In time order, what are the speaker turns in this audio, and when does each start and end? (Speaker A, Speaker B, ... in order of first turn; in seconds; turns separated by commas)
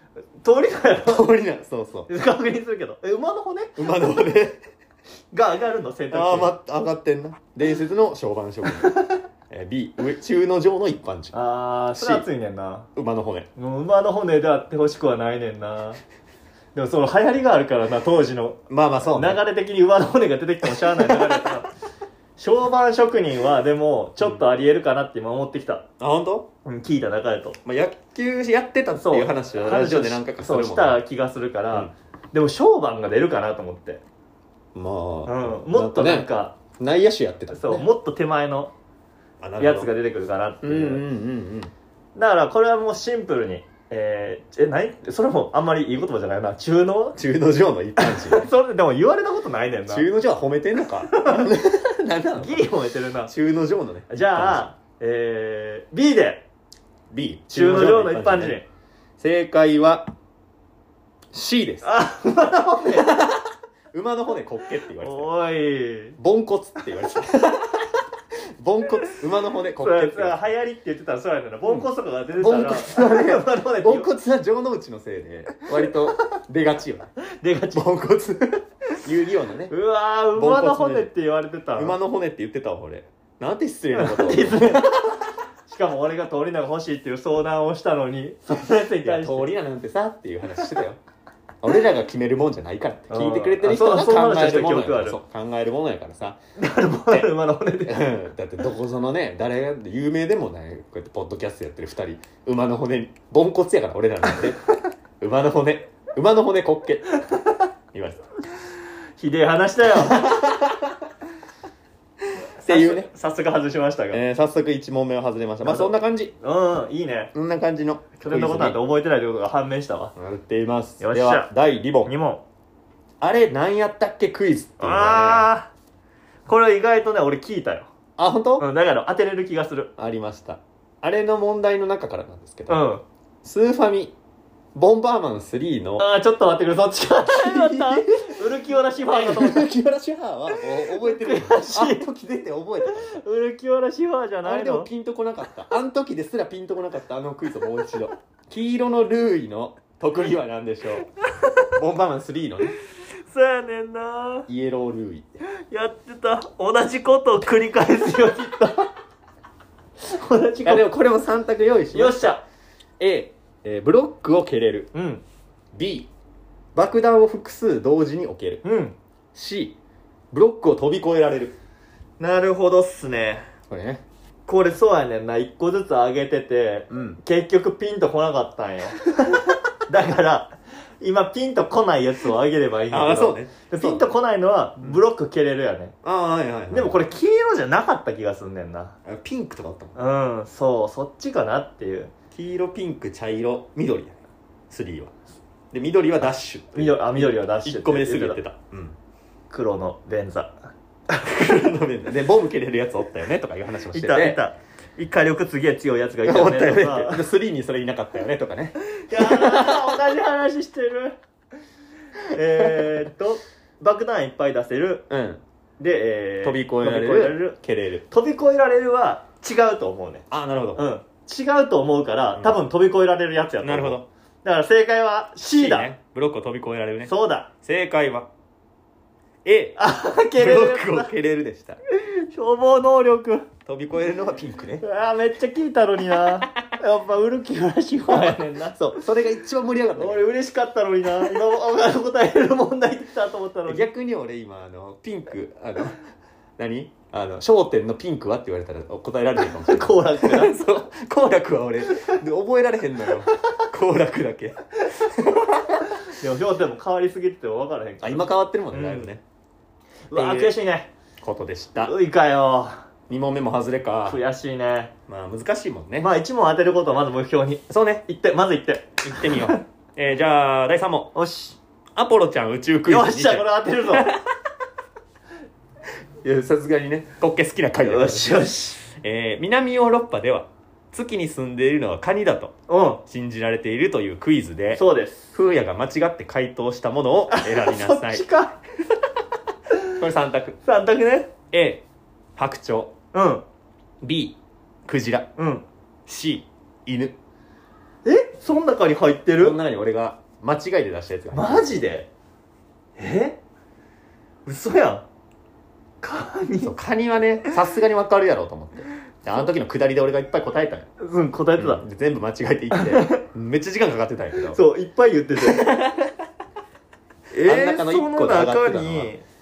Speaker A: 0.4-1.3, Speaker B: 1.1-2.1, Speaker A: 2.1-3.8, Speaker B: 3.8-4.6, Speaker A: 5.3-6.5, Speaker B: 6.1-9.0, Speaker A: 8.8-9.2, Speaker B: 9.5-11.3, Speaker A: 11.3-12.9, Speaker B: 11.9-12.3, Speaker B: 12.9-13.5, Speaker A: 13.6-16.0, Speaker A: 16.8-21.7, Speaker B: 18.7-19.4, Speaker B: 20.7-21.5, Speaker A: 22.4-25.9, Speaker B: 26.0-26.5, Speaker A: 26.6-27.6, Speaker B: 27.6-31.0, Speaker A: 29.0-34.0, Speaker B: 34.8-37.9, Speaker A: 35.3-36.6, Speaker A: 37.5-38.7, Speaker B: 39.4-39.9, Speaker A: 39.6-41.1, Speaker B: 40.6-41.7, Speaker A: 42.2-47.2, Speaker B: 47.2-48.5, Speaker A: 48.0-50.1, Speaker B: 49.9-52.7, Speaker A: 51.0-51.5, Speaker A: 52.4-53.3, Speaker B: 53.3-54.7, Speaker A: 54.1-56.4, Speaker B: 57.1-58.6, Speaker A: 57.5-58.6, Speaker B: 59.2-60.1, Speaker B: 61.3-61.9, Speaker A: 61.8-63.2, Speaker B: 62.9-65.3, Speaker A: 65.0-66.2, Speaker B: 66.2-70.4, Speaker A: 69.8-74.1, Speaker B: 71.7-77.1, Speaker A: 77.4-77.9, Speaker B: 77.7-79.7, Speaker A: 79.7-82.0, Speaker B: 80.3-81.1, Speaker B: 81.8-85.2, Speaker A: 84.0-89.5, Speaker B: 89.0-91.0, Speaker B: 91.6-96.4, Speaker A: 93.1-95.2, Speaker A: 96.6-98.1, Speaker B: 97.1-104.6, Speaker B: 105.2-107.1, Speaker B: 107.9-108.2, Speaker A: 109.2-110.3, Speaker B: 110.0-111.0, Speaker B: 112.6-113.1, Speaker A: 112.6-114.2, Speaker B: 114.1-116.3, Speaker A: 115.6-117.3, Speaker B: 117.3-118.8, Speaker A: 118.2-120.1, Speaker B: 120.2-122.1, Speaker A: 121.0-121.5, Speaker A: 122.0-122.4, Speaker B: 123.2-125.5, Speaker A: 124.8-125.7, Speaker A: 126.5-127.9, Speaker B: 128.2-128.7, Speaker A: 128.6-129.9, Speaker B: 130.0-132.8, Speaker A: 132.7-133.0, Speaker B: 133.4-134.1, Speaker B: 134.8-136.1, Speaker A: 136.0-139.7, Speaker B: 137.3-138.3, Speaker B: 139.0-143.2, Speaker A: 140.9-142.1, Speaker A: 142.9-144.9, Speaker B: 144.4-151.1, Speaker B: 151.8-152.8, Speaker A: 153.3-154.5, Speaker B: 154.5-155.4, Speaker A: 155.7-158.9, Speaker A: 160.1-160.9, Speaker B: 160.7-162.3, Speaker A: 161.9-162.4, Speaker B: 163.0-164.9, Speaker A: 164.9-165.2, Speaker B: 165.7-166.1, Speaker B: 166.8-168.6, Speaker A: 168.6-169.0, Speaker B: 169.3-169.8, Speaker B: 170.3-171.6, Speaker A: 172.2-173.5, Speaker B: 173.7-174.0, Speaker A: 174.5-185.9, Speaker B: 176.9-177.2, Speaker B: 182.9-184.1, Speaker B: 186.0-187.0, Speaker A: 186.7-189.0, Speaker B: 189.1-189.9, Speaker A: 190.0-192.1, Speaker B: 192.3-194.2, Speaker B: 194.7-195.1, Speaker B: 195.7-199.0, Speaker A: 196.8-198.4, Speaker A: 199.5-200.6, Speaker B: 201.1-204.4, Speaker A: 203.9-207.2, Speaker B: 206.2-210.0, Speaker A: 209.0-211.2, Speaker A: 212.2-215.1, Speaker B: 215.1-215.4, Speaker A: 215.8-217.6, Speaker B: 216.4-218.1, Speaker A: 218.1-225.9, Speaker B: 220.3-220.8, Speaker B: 223.6-224.1, Speaker B: 225.4-228.3, Speaker A: 227.1-227.5, Speaker B: 229.4-229.8, Speaker A: 229.8-231.1, Speaker B: 230.4-231.8, Speaker A: 232.0-233.5, Speaker B: 233.7-234.8, Speaker A: 234.8-239.0, Speaker B: 238.1-240.2, Speaker A: 240.0-243.9, Speaker B: 243.7-246.0, Speaker B: 246.6-255.9, Speaker A: 249.6-250.6, Speaker A: 256.0-259.1, Speaker B: 258.0-259.2, Speaker A: 260.1-260.9, Speaker B: 260.1-260.5, Speaker B: 261.2-261.9, Speaker A: 261.8-262.8, Speaker B: 263.1-264.2, Speaker A: 264.1-264.9, Speaker B: 265.1-266.1, Speaker A: 266.0-269.6, Speaker B: 267.7-268.1, Speaker B: 269.0-271.1, Speaker A: 271.1-271.6, Speaker B: 272.0-274.3, Speaker A: 272.9-274.2, Speaker B: 276.2-282.6, Speaker A: 277.8-278.9, Speaker A: 282.7-283.0, Speaker B: 283.1-284.8, Speaker A: 284.7-285.3, Speaker B: 285.3-288.3, Speaker A: 287.3-288.6, Speaker B: 290.0-290.6, Speaker A: 290.6-291.3, Speaker B: 291.5-291.8, Speaker B: 292.4-292.9, Speaker A: 293.1-293.4, Speaker B: 294.0-295.3, Speaker A: 295.4-295.6, Speaker B: 296.1-297.2, Speaker A: 298.1-299.6, Speaker B: 299.4-301.8, Speaker A: 301.3-302.1, Speaker A: 303.0-303.4, Speaker A: 304.5-305.1, Speaker A: 306.0-306.7, Speaker B: 306.6-310.9, Speaker A: 311.0-311.8, Speaker B: 311.6-314.6, Speaker A: 312.7-313.2, Speaker A: 314.5-315.8, Speaker B: 315.4-316.1, Speaker B: 317.3-319.1, Speaker A: 317.4-319.2